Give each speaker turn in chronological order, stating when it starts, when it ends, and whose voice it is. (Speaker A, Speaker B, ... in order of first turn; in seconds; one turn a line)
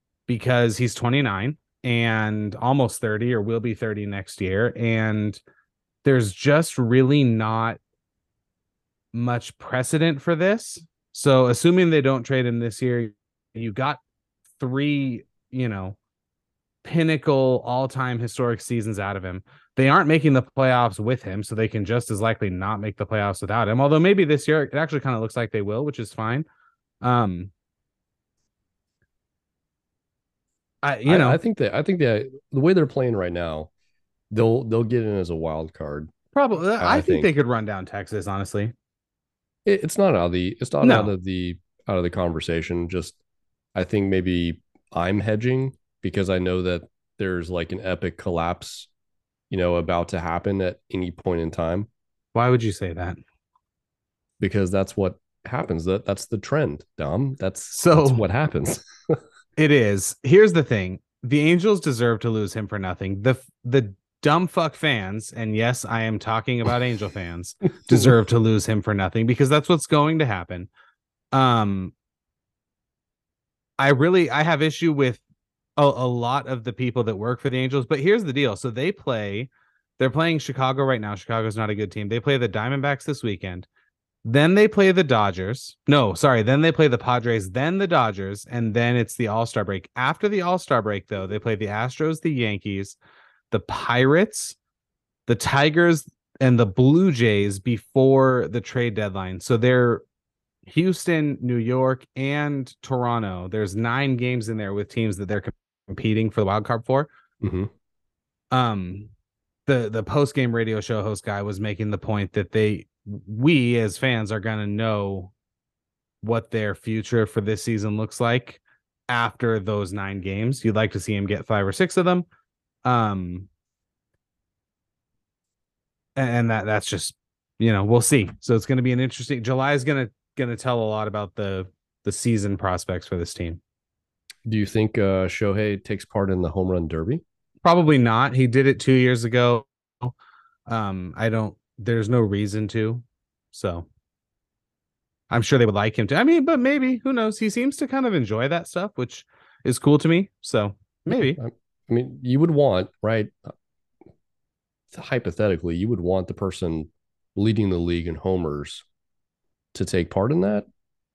Speaker A: 0.3-5.4
Speaker A: 6.0-7.8
Speaker A: 9.1-14.0
Speaker A: 14.6-16.0
Speaker A: 16.8-26.5
Speaker A: 27.0-27.5
Speaker A: 30.8-31.4
Speaker B: 31.1-33.7
Speaker B: 34.3-36.1
Speaker A: 36.3-38.7
Speaker B: 36.8-37.3
Speaker B: 39.6-43.2
Speaker A: 40.8-41.1
Speaker B: 43.8-48.9
Speaker B: 49.5-51.9
Speaker A: 52.3-53.2
Speaker B: 54.4-59.2
Speaker A: 57.8-58.2
Speaker A: 59.6-70.7
Speaker A: 71.3-71.9
Speaker A: 73.8-75.2
Speaker A: 75.8-83.7
Speaker A: 84.2-93.0
Speaker A: 93.5-94.6
Speaker A: 95.3-100.0
Speaker A: 100.7-107.1
Speaker B: 107.4-107.7
Speaker A: 108.5-109.1
Speaker A: 109.7-115.3
Speaker A: 116.2-122.3
Speaker A: 122.8-123.5
Speaker A: 126.2-133.6
Speaker B: 134.5-137.2
Speaker A: 137.6-140.1
Speaker A: 140.7-143.9
Speaker A: 145.3-151.4
Speaker B: 151.1-153.5
Speaker B: 154.9-158.8
Speaker B: 159.7-160.7